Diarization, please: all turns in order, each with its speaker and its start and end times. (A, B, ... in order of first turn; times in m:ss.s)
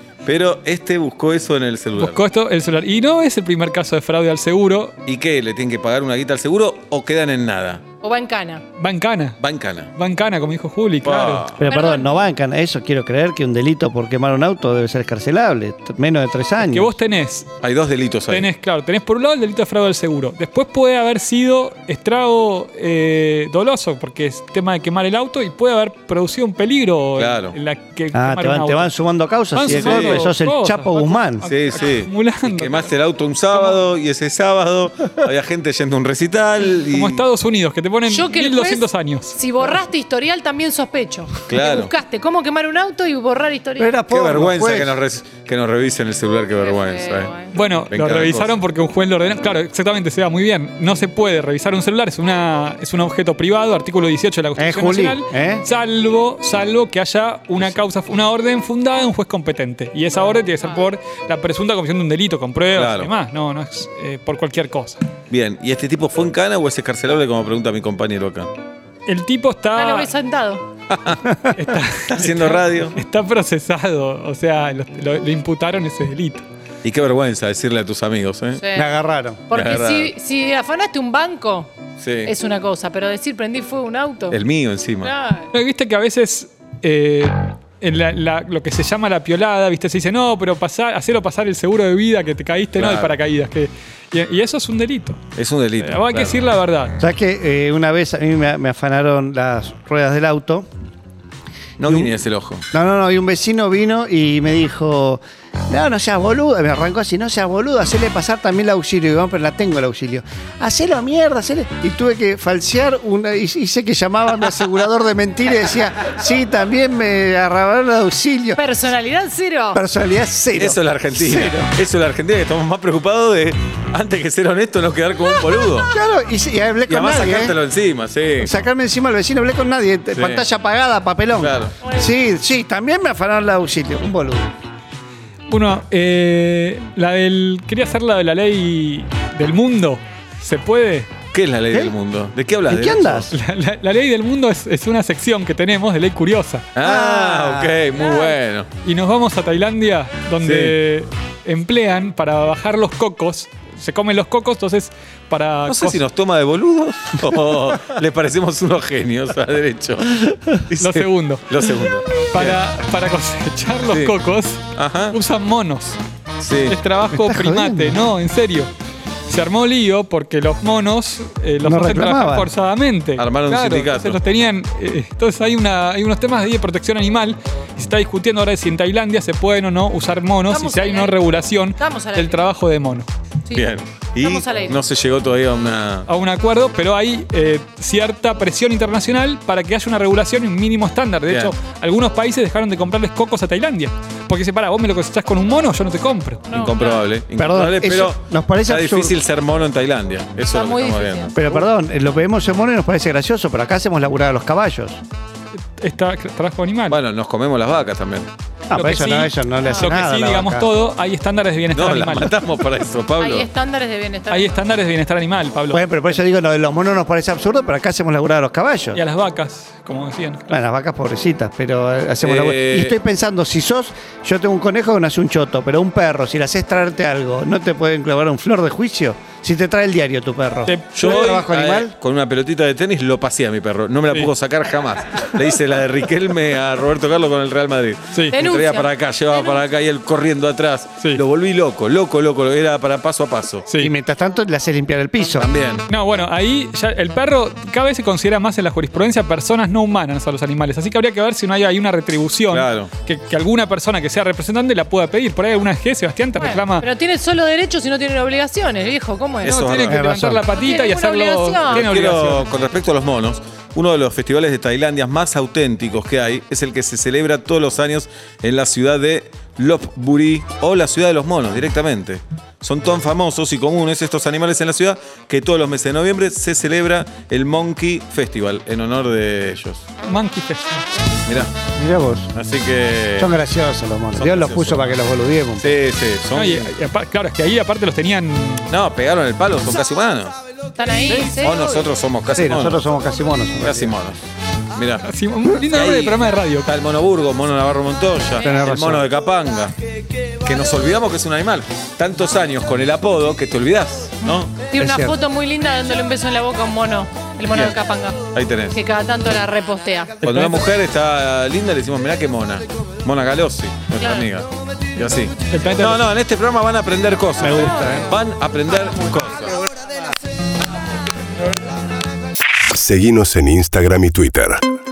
0:00.2-0:02.2 A
0:02.0-0:05.0 B
0:05.0-0:07.8 A
0:08.0-0:08.6 C
0:08.8-0:09.4 B
0:09.4-0:09.9 A
0:09.9-0:11.5 B
0:11.0-0:11.6 A
0:11.6-0:17.0 D
0:11.7-0:12.2 C
0:16.6-0:17.5 B
0:17.6-0:18.5 A
0:18.3-0:28.9 B
0:27.2-0:27.6 A
0:28.1-0:31.4 D
0:29.5-0:32.9 B
0:29.6-0:30.2 A
0:31.4-0:37.2 A
0:36.9-0:39.4 B
0:38.0-0:44.0 C
0:41.5-0:41.9 A
0:43.8-0:45.0 D
0:44.1-0:48.5 A
0:46.6-0:47.5 C
0:47.5-1:05.0 B
0:54.6-0:55.6 D
1:02.7-1:03.1 A
1:05.3-1:08.5 A
1:09.0-1:10.1 B
1:09.8-1:10.6 C
1:10.9-1:11.3 A
1:11.5-1:16.4 B
1:12.1-1:13.0 A
1:16.8-1:18.6 A
1:18.6-1:18.9 C
1:18.7-1:19.5 D
1:19.5-1:24.4 C
1:19.5-1:20.1 A
1:22.0-1:22.3 A
1:24.3-1:25.1 A
1:25.0-1:25.5 C
1:25.5-1:35.2 B
1:32.7-1:33.2 A
1:35.3-1:36.4 A
1:35.8-1:37.0 B
1:37.0-1:40.7 D
1:41.8-1:42.6 A
1:41.9-1:42.2 D
1:42.7-1:58.6 D
1:58.6-1:59.8 C
1:59.7-2:01.7 D
2:00.6-2:05.9 A
2:05.9-2:07.6 D
2:06.9-2:08.6 A
2:08.4-2:14.5 D
2:10.1-2:10.5 A
2:11.4-2:11.8 A
2:15.5-2:21.1 B
2:21.3-2:23.3 A
2:22.7-2:23.3 D
2:23.3-2:26.7 B
2:26.8-2:28.7 A
2:26.8-2:27.9 D
2:28.0-2:28.3 C
2:28.8-2:36.0 B
2:30.4-2:30.8 A
2:35.7-2:42.6 A
2:40.8-2:41.7 B
2:42.3-2:46.0 B
2:43.9-2:44.2 A
2:44.7-2:45.2 A
2:46.4-2:46.8 A
2:46.6-2:48.7 B
2:47.1-2:48.0 D
2:49.3-3:03.1 B
2:51.6-2:52.5 D
2:53.2-2:54.2 A
3:00.5-3:02.4 C
3:03.5-3:06.1 A
3:04.2-3:04.8 C
3:06.0-3:16.4 B
3:11.3-3:11.5 A
3:16.5-3:17.0 C
3:16.5-3:21.6 A
3:17.4-3:19.2 D
3:20.5-3:21.3 C
3:21.3-3:25.0 D
3:25.7-3:27.0 B
3:26.9-3:28.3 A
3:28.7-3:30.7 D
3:28.7-3:32.4 B
3:31.7-3:33.5 A
3:33.2-3:34.6 C
3:34.3-3:36.2 B
3:35.7-3:39.0 D
3:38.9-3:40.4 B
3:40.5-3:51.9 D
3:42.2-3:43.0 A
3:50.6-3:51.3 B
3:50.9-4:03.7 A
3:58.3-3:59.6 C
4:03.8-4:05.5 D
4:05.3-4:05.8 A
4:05.9-4:16.8 B
4:12.5-4:12.9 A
4:16.4-4:19.6 C
4:19.4-4:19.9 A
4:19.4-4:22.5 B
4:19.7-4:20.4 D
4:20.5-4:21.9 C
4:21.7-4:39.8 A
4:40.0-4:40.9 B
4:41.2-4:41.5 A
4:41.7-4:42.3 D
4:42.3-4:43.3 A
4:43.2-4:45.8 D
4:44.1-4:45.0 A
4:45.6-4:46.7 A
4:46.3-4:48.7 B
4:48.7-4:50.4 A
4:50.8-4:51.6 C
4:51.1-4:51.5 B
4:51.4-4:52.8 A
4:52.3-4:53.9 D
4:53.6-4:54.2 A
4:54.7-4:59.7 A
4:55.0-4:56.7 B
4:58.4-4:58.6 C
4:58.4-4:59.1 D
5:00.4-5:04.6 A
5:04.2-5:10.2 C
5:04.8-5:05.2 D
5:07.5-5:07.8 A
5:08.3-5:08.8 A
5:10.2-5:10.6 B
5:10.2-5:19.6 A
5:14.0-5:14.3 C
5:15.5-5:16.0 B
5:17.4-5:18.1 D
5:22.7-5:24.6 E